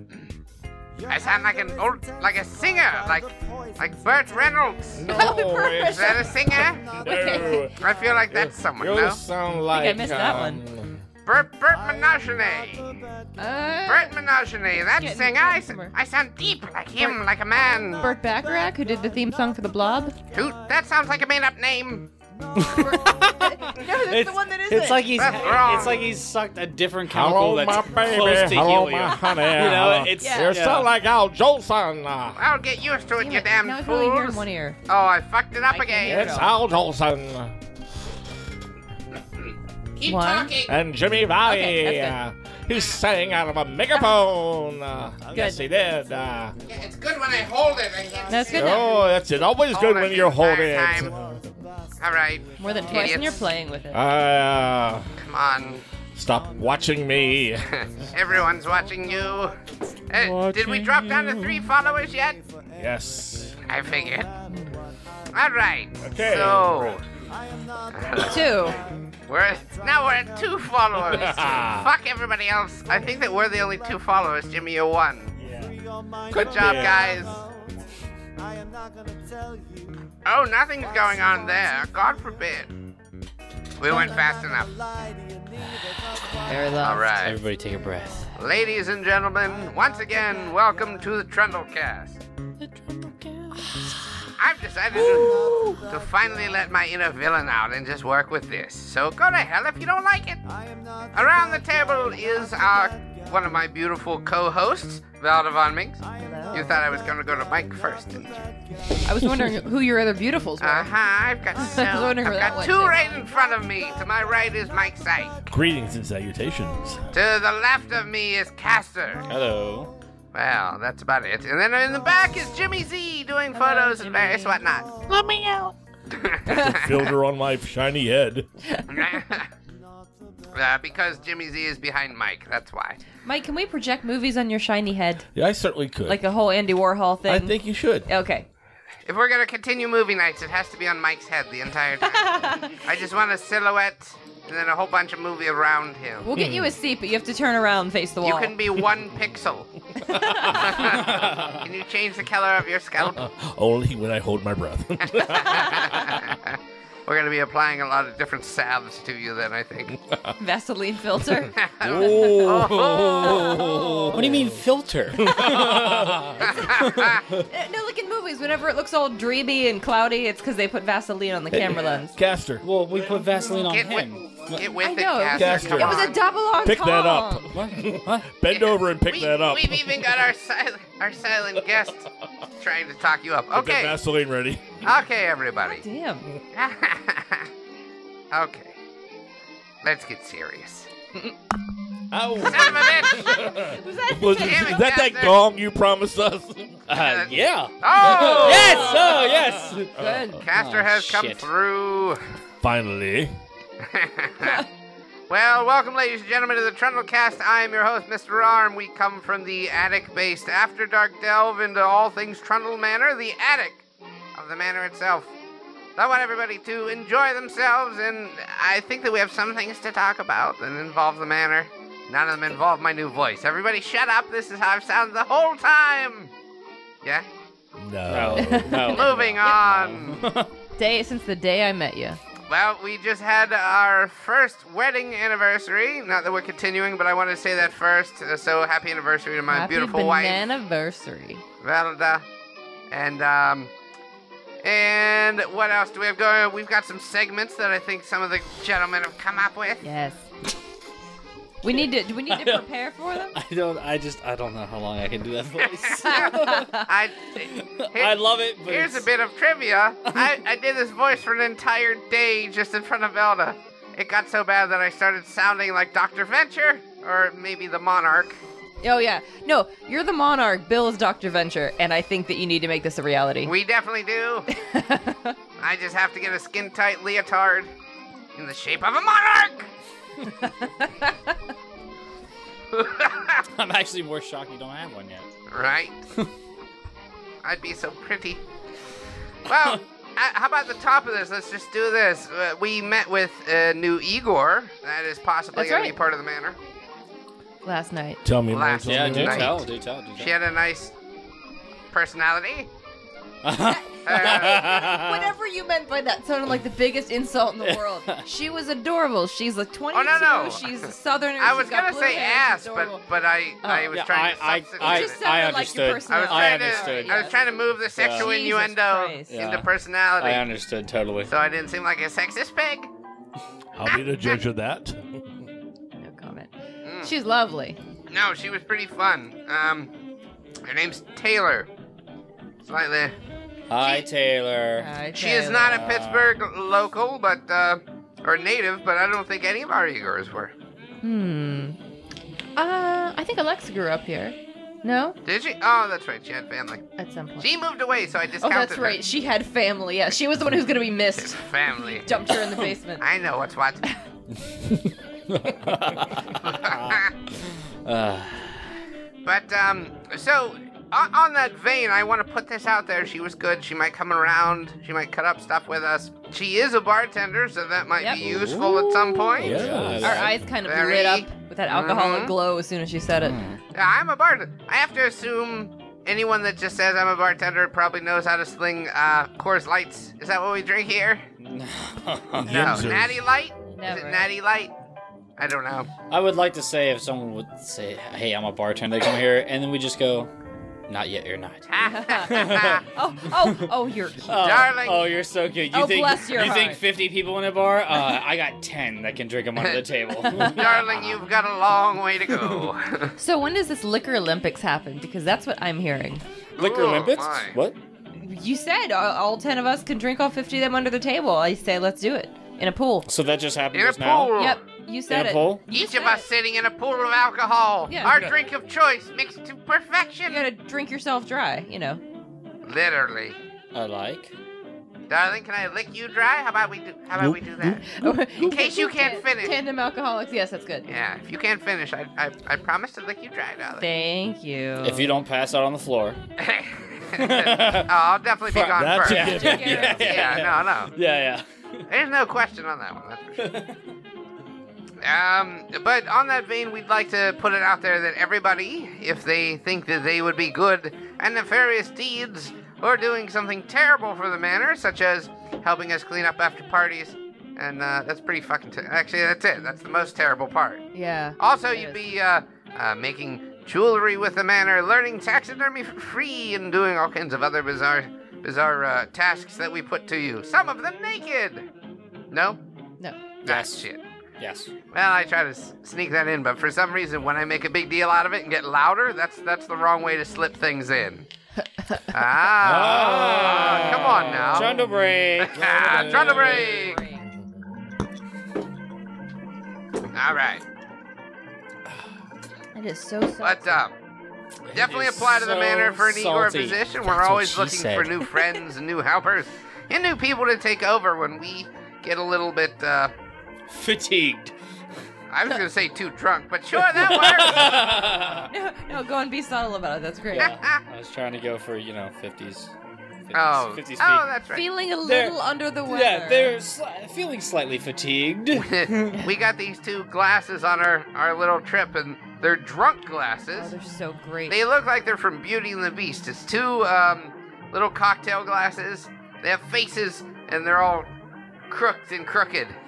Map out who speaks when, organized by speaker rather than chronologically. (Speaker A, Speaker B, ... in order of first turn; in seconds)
Speaker A: 0.9-8.4, 10.0-10.5, 11.6-14.1, 14.8-15.6, 17.5-20.9, 22.3-26.3, 45.2-50.2, 50.8-53.6, 56.2-59.5, 61.6-71.9, 72.8-74.0, 75.4-77.8, 78.4-82.5, 83.8-87.2, 89.4-91.1, 95.1-96.7, 100.4-103.7, 106.0-109.4, 111.5-115.6, 116.7-117.2, 119.2-120.0, 121.9-122.4, 123.7-125.2, 129.2-130.9, 172.9-173.6, 175.5-175.9
Speaker B: 1.1-5.2, 5.9-7.0, 7.7-9.2, 11.2-12.9, 13.9-18.1, 20.3-22.1, 25.1-26.0, 32.4-36.5, 40.0-40.8, 46.7-48.9, 49.7-51.1, 52.0-53.5, 55.2-55.8, 57.8-59.5, 60.1-62.4, 63.6-64.3, 65.3-67.0, 68.0-68.3, 69.3-75.3, 76.3-77.4, 80.2-82.7, 83.8-84.7, 86.8-87.4, 88.4-92.2, 94.4-100.4, 101.1-108.4, 110.6-115.5, 117.1-119.3, 120.3-124.9, 126.2-126.9, 128.9-129.5, 130.5-133.0, 139.1-146.3, 148.2-149.7, 150.2-153.2, 155.0-160.0, 161.6-163.6, 166.4-167.3, 173.6-176.2, 178.5-182.1, 182.6-184.0, 184.8-185.8, 186.5-187.5, 188.3-188.7, 189.8-190.9, 192.4-193.5, 194.3-195.4, 196.9-199.2, 200.4-202.2, 203.8-204.6, 205.3-213.8, 214.3-215.3, 216.0-226.3, 228.9-230.3, 232.5-240.4, 241.6-242.2, 242.9-243.7, 244.6-249.8, 256.0-268.4, 273.4-274.5, 275.6-277.7, 278.4-279.7, 282.7-283.4, 285.5-286.0, 287.4-288.4, 289.4-296.6, 298.5-300.9, 301.9-302.7, 304.0-304.9, 309.9-310.8, 311.4-315.2, 316.1-320.5, 321.3-322.9, 323.8-324.4, 326.8-327.1, 328.1-329.9, 330.6-331.7, 332.6-333.1, 333.8-334.0, 335.1-340.5, 345.2-346.8, 347.4-349.0, 351.1-352.1, 353.0-353.8, 356.4-357.1, 359.2-372.3, 373.7-381.2, 382.4-384.7, 385.4-385.9, 391.7-392.8, 394.3-395.1, 399.6-403.1, 406.6-407.4, 413.7-414.6, 415.7-420.4, 422.6-423.4, 425.1-427.8, 428.4-429.6, 430.9-433.9, 436.4-440.9, 441.9-443.6, 445.0-460.8, 461.4-471.6, 472.3-472.6, 473.4-474.0, 474.9-481.2, 482.1-487.0, 490.1-490.6, 493.4-493.9, 494.7-503.1, 505.3-508.4, 510.3-510.8, 513.3-514.7, 518.5-523.7, 524.5-531.1, 531.7-532.8
Speaker C: 4.9-6.3, 7.0-10.9, 27.1-32.4, 36.0-37.5, 40.7-46.5, 48.5-51.5, 53.9-55.1, 56.1-57.7, 60.1-61.7, 62.8-63.6, 66.0-67.0, 68.1-68.5, 115.5-117.0, 126.5-128.5, 135.3-136.2, 137.2-138.1, 146.3-146.8, 150.1-150.9, 153.2-156.2, 159.9-160.3, 161.8-166.5, 171.5-172.6, 175.3-180.2, 183.5-184.8, 192.1-196.9, 202.6-203.3, 227.8-229.1, 298.2-299.7, 323.7-325.4, 369.4-370.3, 382.4-383.2, 438.5-440.2, 485.9-486.3
Speaker D: 5.1-6.4, 7.0-7.7, 9.7-10.6, 13.4-14.1, 15.0-15.9, 18.0-20.1, 22.7-25.3, 30.2-30.6, 33.2-34.8, 35.7-36.5, 40.1-40.5, 41.4-42.2, 45.3-45.6, 48.3-48.9, 52.6-54.0, 64.5-64.8, 68.2-68.8, 86.4-87.1, 106.2-106.7, 109.0-110.9, 111.5-113.0, 123.5-124.6, 133.2-135.2, 136.1-138.5, 142.0-142.8, 146.2-148.6, 150.1-150.5, 160.4-161.5, 163.2-163.7, 167.5-172.1, 174.8-177.5, 185.7-186.3, 193.0-194.8, 198.2-199.1, 199.9-200.4, 228.3-229.6, 230.8-232.2, 239.5-241.4, 249.8-250.2, 251.6-253.3, 256.0-256.9, 268.8-273.5, 274.5-275.3, 280.4-281.1, 295.5-295.9, 297.6-298.2, 303.6-313.0, 313.6-313.9, 314.8-317.4, 318.2-319.3, 326.0-326.5, 327.0-327.8, 334.8-335.8, 341.0-341.8, 342.6-345.2, 347.0-347.5, 348.4-353.0, 368.0-369.4, 370.0-373.4, 383.7-384.3, 391.8-394.6, 395.7-396.8, 400.3-400.6, 403.2-406.2, 408.2-413.1, 414.4-416.2, 420.2-422.0, 427.8-430.9, 433.8-435.1, 439.1-440.3, 460.9-462.0, 485.9-487.2, 492.7-493.8, 508.5-510.5, 514.5-516.5, 523.5-524.6
Speaker E: 22.6-30.9, 71.1-71.8, 76.3-76.9, 87.2-88.3, 92.8-93.9, 119.3-119.9, 164.1-167.1, 172.6-174.6, 177.5-178.3, 196.9-201.5, 228.1-230.5, 252.3-252.6, 253.3-256.8, 257.4-259.1, 283.5-285.3, 298.8-300.3, 303.4-305.3, 307.6-308.2, 313.9-317.3, 317.9-318.3, 319.3-321.3, 333.7-334.9, 335.6-336.3, 355.3-357.0, 357.8-358.7, 368.2-368.8, 369.4-370.4, 373.2-373.6, 381.4-382.9, 386.1-390.3, 390.9-391.6, 392.3-392.8, 393.4-393.7, 394.3-401.2, 406.6-407.8, 413.1-414.3, 415.1-415.6, 423.7-424.3, 434.8-436.2, 437.1-437.9, 438.5-441.8, 443.4-443.7, 473.4-473.9, 474.4-474.7, 482.6-486.7, 494.7-498.3, 503.7-504.5, 506.7-508.5, 510.3-512.7, 513.3-514.3, 515.0-519.1